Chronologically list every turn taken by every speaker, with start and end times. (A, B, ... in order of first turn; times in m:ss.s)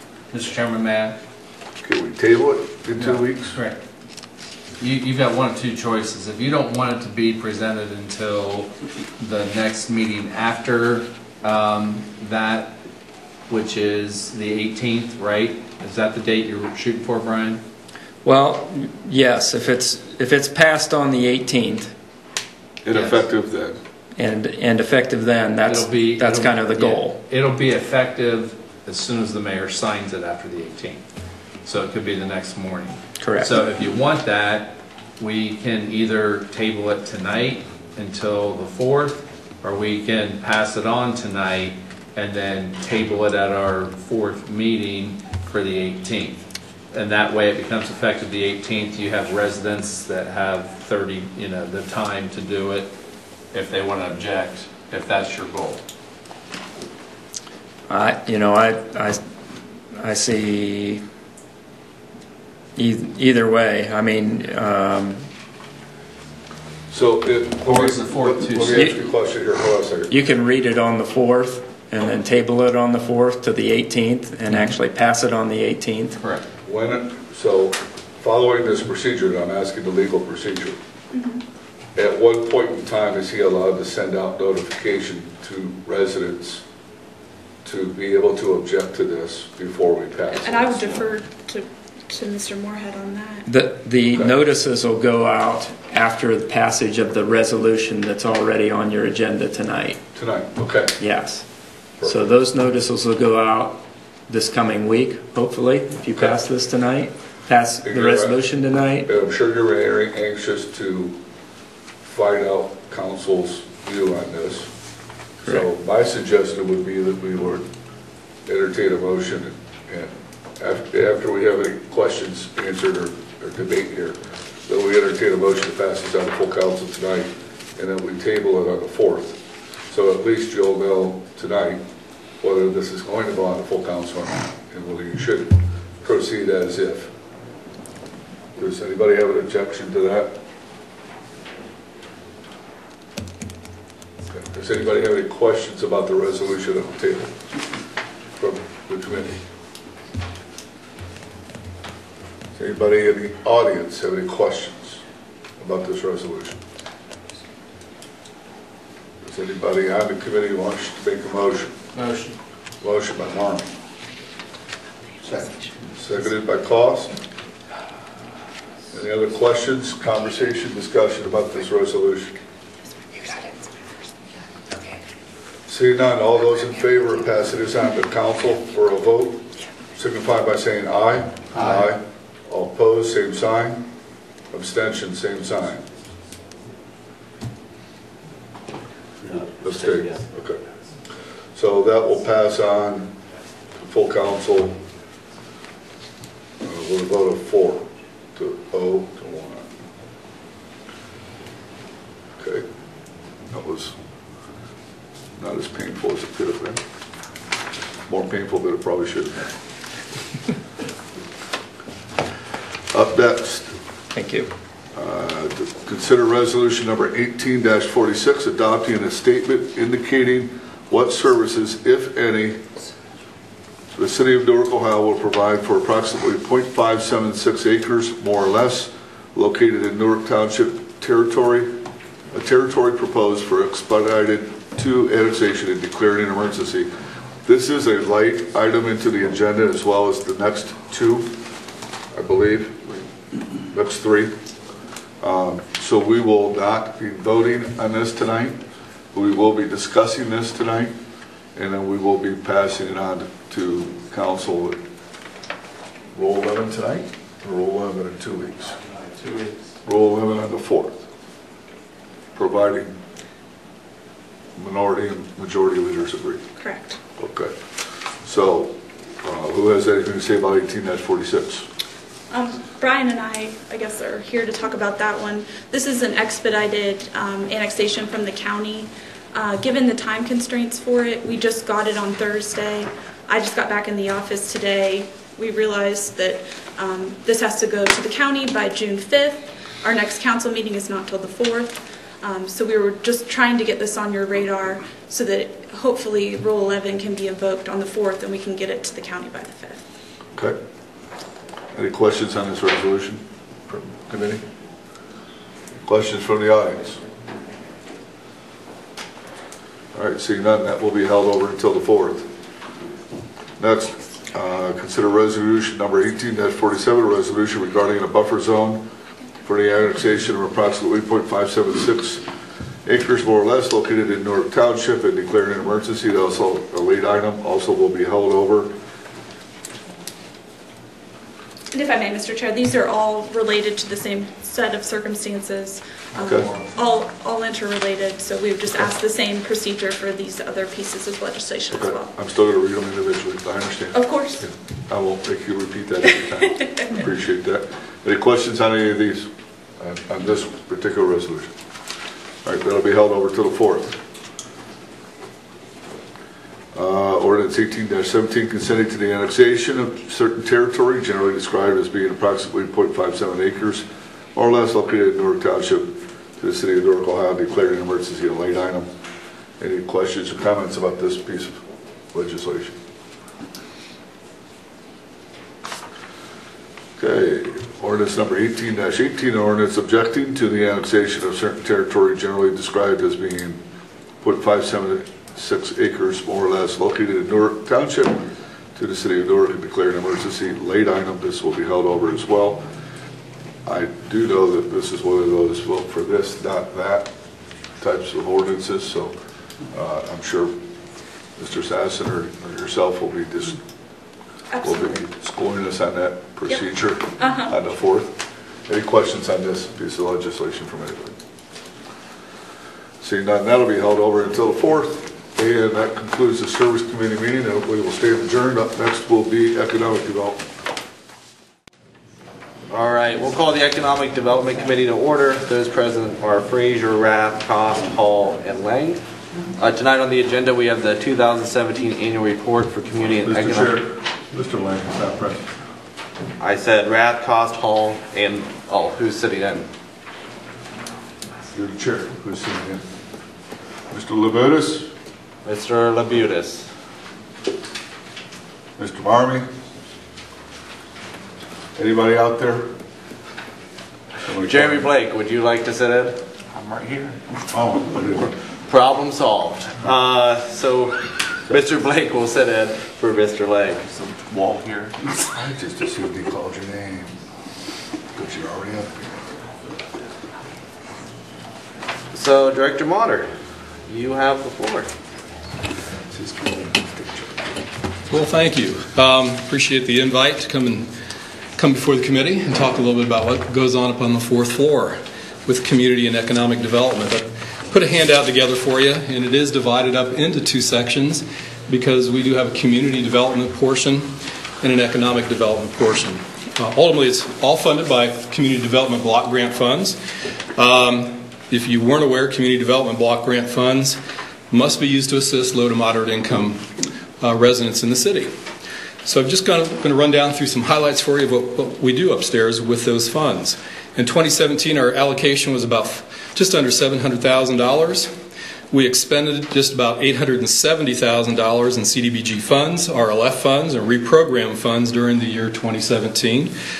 0:00.3-0:01.2 A
0:01.8-0:03.6 B
0:02.9-0:03.8 A
0:04.8-0:12.8 A
0:13.5-0:17.6 A
0:18.2-0:21.9 C
0:22.8-0:23.8 B
0:24.2-0:27.2 C
0:25.6-0:31.0 A
0:31.6-0:52.9 A
0:33.2-0:33.6 C
0:53.5-0:55.8 A
0:57.9-0:59.2 C
0:59.9-1:01.0 C
1:02.8-1:05.2 C
1:06.9-1:10.1 B
1:07.6-1:08.9 A
1:08.7-1:08.9 C
1:10.1-1:16.2 C
1:16.2-1:16.4 A
1:16.6-1:20.8 B
1:21.1-1:21.4 D
1:21.9-1:26.6 B
1:27.6-1:31.1 B
1:30.3-1:33.5 D
1:33.4-1:40.0 C
1:34.1-1:34.4 B
1:40.1-1:41.0 B
1:41.0-1:41.5 C
1:42.0-1:42.3 B
1:42.0-1:49.1 C
1:47.8-1:48.4 B
1:49.0-1:51.2 B
1:52.0-1:54.7 B
1:55.4-1:57.7 B
1:58.4-2:11.8 B
2:12.4-2:17.1 B
2:18.6-2:20.4 B
2:24.3-2:27.4 B
2:28.4-2:29.4 B
2:32.5-2:35.0 B
2:35.6-2:36.6 B
2:39.2-2:41.8 B
2:41.9-2:42.3 A
2:42.8-2:43.7 B
2:45.8-2:47.2 B
2:48.9-2:52.4 B
2:55.7-3:03.8 B
3:04.5-3:05.9 B
3:09.2-3:10.6 B
3:11.5-3:13.1 B
3:13.7-3:14.8 B
3:16.6-3:19.7 B
3:22.4-3:22.6 B
3:23.5-3:23.9 B
3:25.4-3:26.8 B
3:28.1-3:29.5 B
3:32.9-3:33.7 B
3:34.1-3:34.5 C
3:34.9-3:42.6 B
3:43.9-3:51.8 B
3:52.3-3:56.9 B
3:57.4-4:01.4 B
4:02.1-4:03.0 B
4:03.7-4:04.4 B
4:05.2-4:08.6 B
4:09.1-4:11.0 B
4:11.5-4:14.8 B
4:16.1-4:18.8 B
4:19.8-4:21.0 B
4:22.3-4:23.0 B
4:24.6-4:26.4 B
4:26.6-4:27.0 D
4:27.2-4:27.6 B
4:28.2-4:31.7 B
4:32.3-4:59.8 D
5:01.7-5:04.4 B
5:05.8-5:07.0 B
5:09.9-5:12.3 B
5:13.6-5:18.8 B
5:19.4-5:22.2 B
5:22.8-5:28.7 B
5:31.7-5:42.1 D
5:36.1-5:36.5 B
5:41.7-5:51.5 B
5:43.9-5:44.5 D
5:52.4-5:54.0 B
5:56.7-6:08.9 B
6:09.6-6:12.8 B
6:17.0-6:23.6 B
6:24.2-6:32.6 B
6:33.6-6:37.1 B
6:37.8-6:39.1 B
6:39.7-6:40.6 B
6:41.4-6:43.6 B
6:44.5-6:45.0 D
6:44.6-6:51.2 B
6:47.2-6:47.5 D
6:53.0-7:00.4 B
7:02.7-7:09.0 E
7:09.6-7:13.8 E
7:13.2-7:15.5 B
7:16.4-7:19.7 E
7:21.5-7:22.8 B
7:23.9-7:24.9 B
7:25.4-7:26.7 E
7:28.8-7:29.5 B
7:31.8-7:32.8 B
7:34.2-7:34.8 B
7:34.3-7:37.2 E
7:37.5-7:38.3 B
7:38.7-7:45.0 E
7:45.3-7:47.2 B
7:48.1-7:49.2 B
7:52.1-7:53.3 E
7:53.8-7:54.9 E
7:56.1-7:57.4 B
7:58.1-8:00.9 F
8:01.6-8:20.0 F
8:20.5-8:24.0 F
8:24.5-8:26.7 F
8:27.2-8:28.3 F
8:29.0-8:38.1 F
8:38.7-8:46.5 F